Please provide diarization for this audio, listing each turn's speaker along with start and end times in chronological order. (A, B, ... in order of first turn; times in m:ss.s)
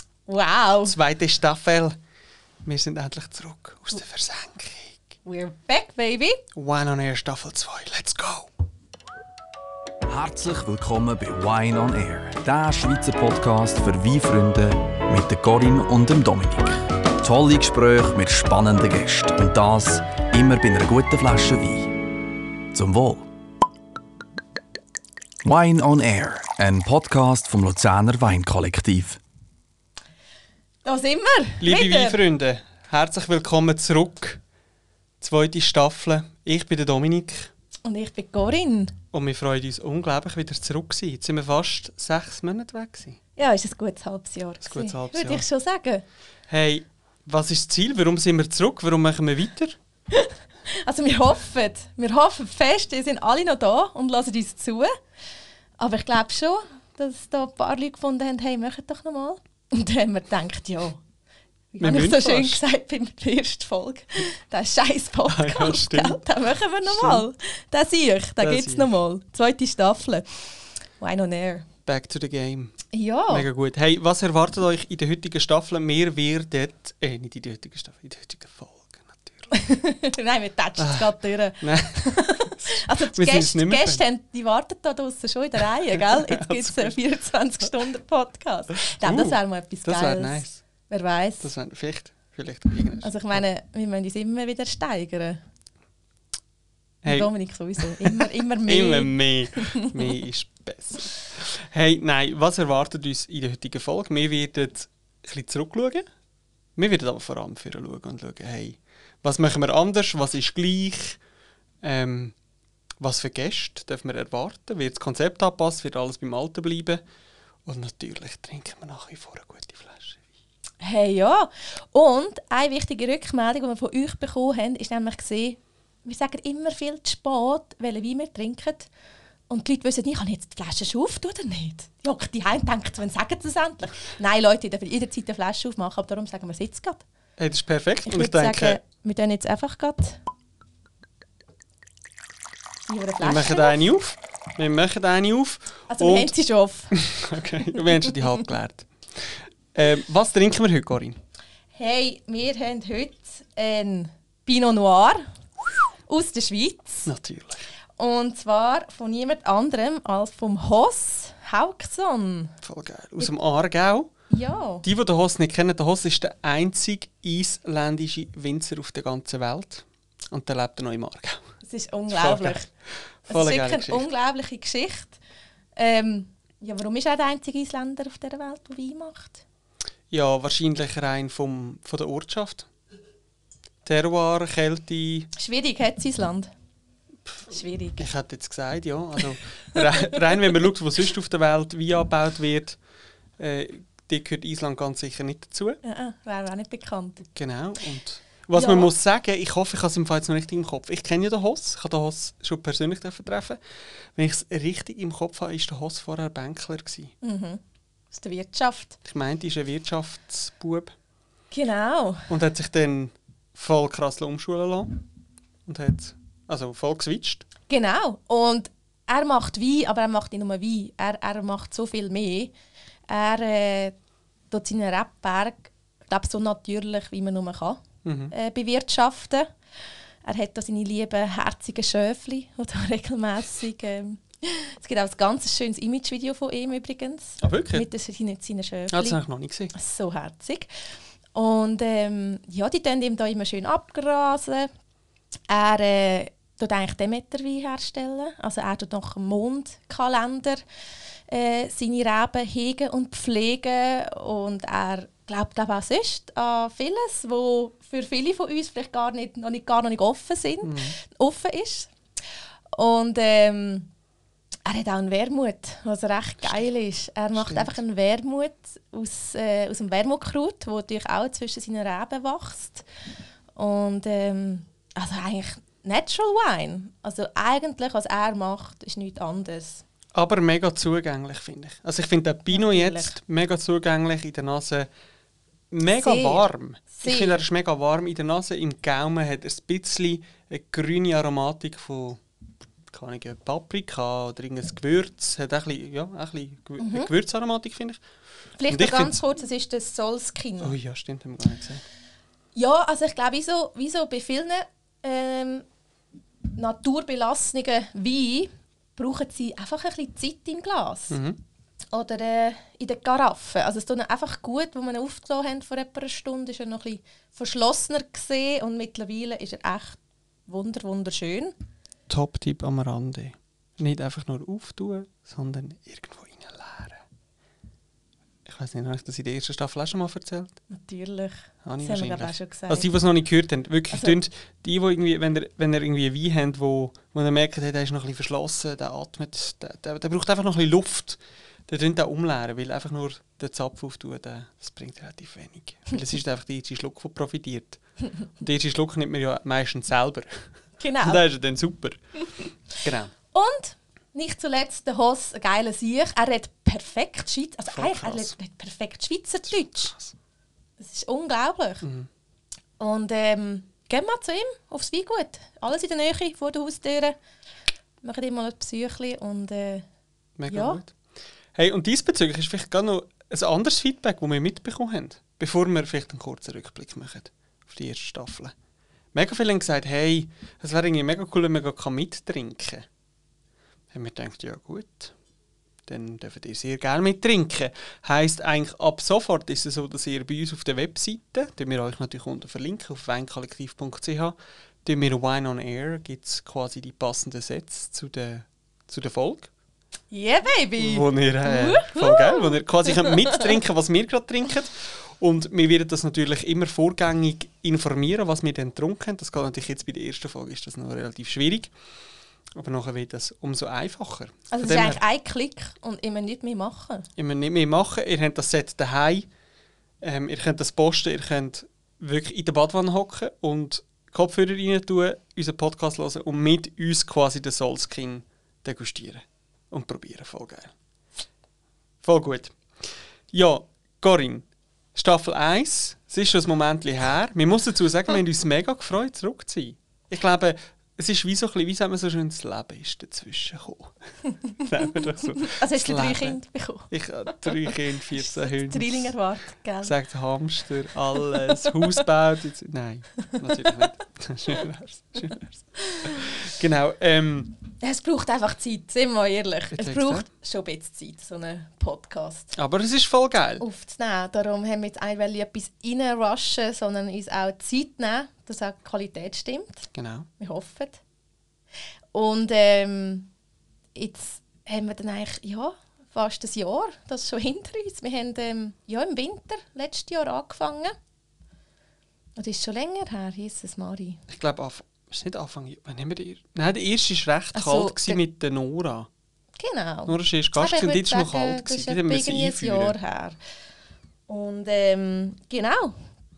0:00.3-0:01.0 A
0:00.8-0:02.0 B
0:02.6-0:05.0 B
0:05.2-0:06.4 A
0:06.5-0:08.5 B
0:10.0-0:21.9 C
0:22.7-0:23.3 C
0:25.4-0:29.2 C
0:30.8-0:32.2 A
0:31.6-0:34.4 B
0:35.2-0:37.5 B
0:37.8-0:38.9 A
0:39.1-0:43.2 B
0:43.4-0:46.0 A
0:44.6-0:45.4 B
0:46.5-0:49.8 B
0:50.1-0:54.9 A
0:55.8-1:01.0 A
1:01.7-1:10.2 A
1:01.8-1:02.6 B
1:05.3-1:06.2 B
1:06.8-1:07.2 B
1:08.4-1:08.9 B
1:11.0-1:11.6 A
1:11.8-1:12.8 B
1:12.9-1:13.5 A
1:13.3-1:19.5 B
1:19.5-1:31.5 A
1:20.8-1:24.0 B
1:25.9-1:27.0 B
1:29.0-1:30.6 B
1:31.4-1:33.4 B
1:33.0-1:35.4 A
1:37.0-1:37.3 B
1:37.0-1:40.0 A
1:37.8-1:46.0 B
1:46.8-1:51.2 B
1:51.8-1:52.3 B
1:53.0-1:57.0 B
1:57.6-2:00.2 B
2:00.8-2:08.9 A
2:09.5-2:17.0 A
2:17.4-2:18.8 B
2:18.0-2:20.2 A
2:22.9-2:23.9 A
2:23.2-2:26.3 B
2:25.9-2:26.9 A
2:26.9-2:31.2 B
2:31.7-2:35.3 A
2:36.1-2:37.1 A
2:37.1-2:37.7 B
2:38.0-2:42.5 A
2:42.6-2:44.1 B
2:44.3-2:44.8 A
2:44.8-2:51.4 B
2:51.6-2:52.7 A
2:52.1-2:52.6 B
2:53.3-2:54.1 B
2:53.3-2:55.2 A
2:55.8-2:59.4 A
3:00.1-3:02.7 B
3:03.8-3:05.3 B
3:05.4-3:06.5 A
3:07.5-3:08.1 A
3:08.0-3:12.8 B
3:13.4-3:15.8 B
3:15.8-3:17.2 A
3:17.2-3:23.6 B
3:18.5-3:18.9 A
3:24.2-3:27.1 B
3:27.2-3:27.6 A
3:28.1-3:29.0 A
3:29.0-3:30.9 B
3:31.5-3:32.3 A
3:32.3-3:35.0 B
3:35.7-3:37.4 B
3:37.7-3:42.5 A
3:43.1-3:43.9 A
3:44.5-3:49.5 A
3:48.0-3:48.3 B
3:50.2-3:59.2 A
3:57.4-3:57.9 B
3:58.9-3:59.7 B
3:59.7-4:00.7 A
4:01.3-4:04.7 A
4:05.5-4:10.6 A
4:11.3-4:21.9 A
4:20.6-4:20.9 B
4:22.7-4:23.9 A
4:24.6-4:32.8 A
4:27.3-4:27.8 B
4:33.6-4:39.8 A
4:40.1-4:44.9 B
4:42.5-4:43.1 A
4:45.7-4:52.2 B
4:45.9-4:47.4 A
4:52.9-4:58.0 B
4:56.8-4:57.1 A
4:58.6-5:00.7 A
4:58.7-4:59.2 B
5:00.6-5:01.8 B
5:02.5-5:05.6 A
5:06.6-5:11.2 A
5:11.1-5:11.4 B
5:11.9-5:21.5 A
5:22.1-5:27.0 B
5:28.4-5:30.6 B
5:30.7-5:32.9 A
5:31.6-5:47.8 B
5:33.9-5:34.2 A
5:48.4-5:50.5 B
5:50.8-5:51.2 A
5:51.0-5:52.0 B
5:52.7-5:53.1 B
5:53.3-5:59.9 A
5:57.7-5:58.3 B
5:59.5-6:00.1 B
6:00.8-6:01.8 A
6:01.8-6:02.1 B
6:02.8-6:07.2 A
6:08.0-6:09.8 A
6:10.4-6:10.9 B
6:10.5-6:10.8 A
6:11.5-6:18.5 B
6:19.1-6:22.8 B
6:23.9-6:25.1 B
6:25.9-6:39.5 B
6:40.1-6:43.4 A
6:40.8-6:51.7 B
6:52.6-6:55.0 B
6:54.5-6:57.0 A
6:57.2-6:59.2 B
7:00.0-7:10.7 B
7:12.0-7:12.5 B
7:13.3-7:23.9 B
7:24.6-7:26.4 B
7:25.4-7:26.9 A
7:26.9-7:29.1 B
7:27.4-7:29.9 A
7:29.8-7:37.6 B
7:35.9-7:36.2 A
7:37.8-7:42.5 A
7:39.7-7:40.2 B
7:42.6-7:43.6 B
7:43.6-7:49.9 A
7:49.9-7:50.3 B
7:50.4-7:51.0 A
7:52.1-7:53.3 A
7:53.9-8:00.9 A
8:02.4-8:04.2 A
8:04.3-8:09.1 B
8:07.5-8:08.2 A
8:09.6-8:13.4 A
8:10.1-8:12.9 B
8:14.3-8:16.0 A